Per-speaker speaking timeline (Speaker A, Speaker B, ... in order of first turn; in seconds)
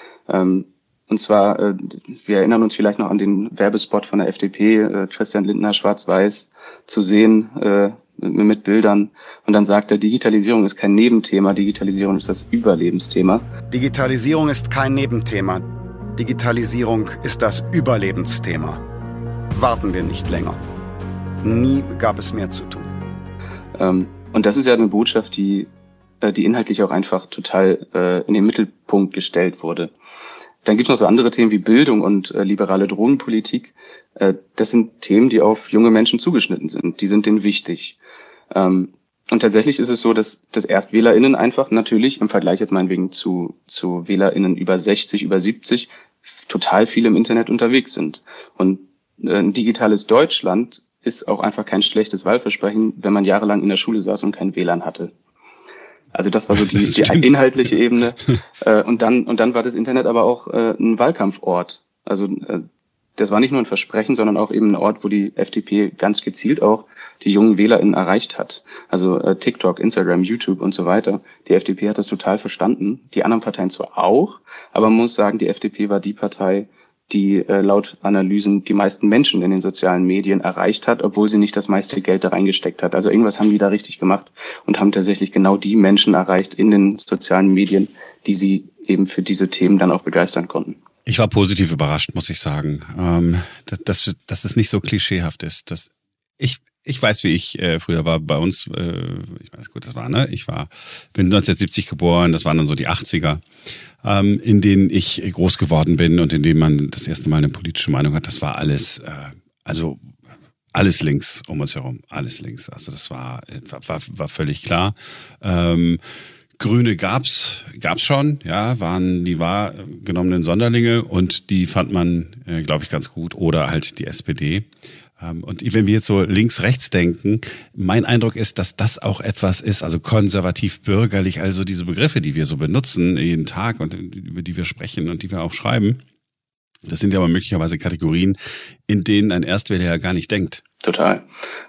Speaker A: 0.3-13.4, 23.8-25.7, 26.2-29.9, 30.6-38.0, 38.5-55.1, 56.1-62.6, 63.2-90.8, 140.8-141.2
Speaker B: 13.7-15.6, 16.2-18.8, 19.6-20.6, 21.4-22.9
Speaker C: 56.6-57.4, 91.1-103.4, 104.0-110.1, 110.7-116.0, 116.6-124.7, 125.2-136.0, 136.8-138.4, 138.9-140.6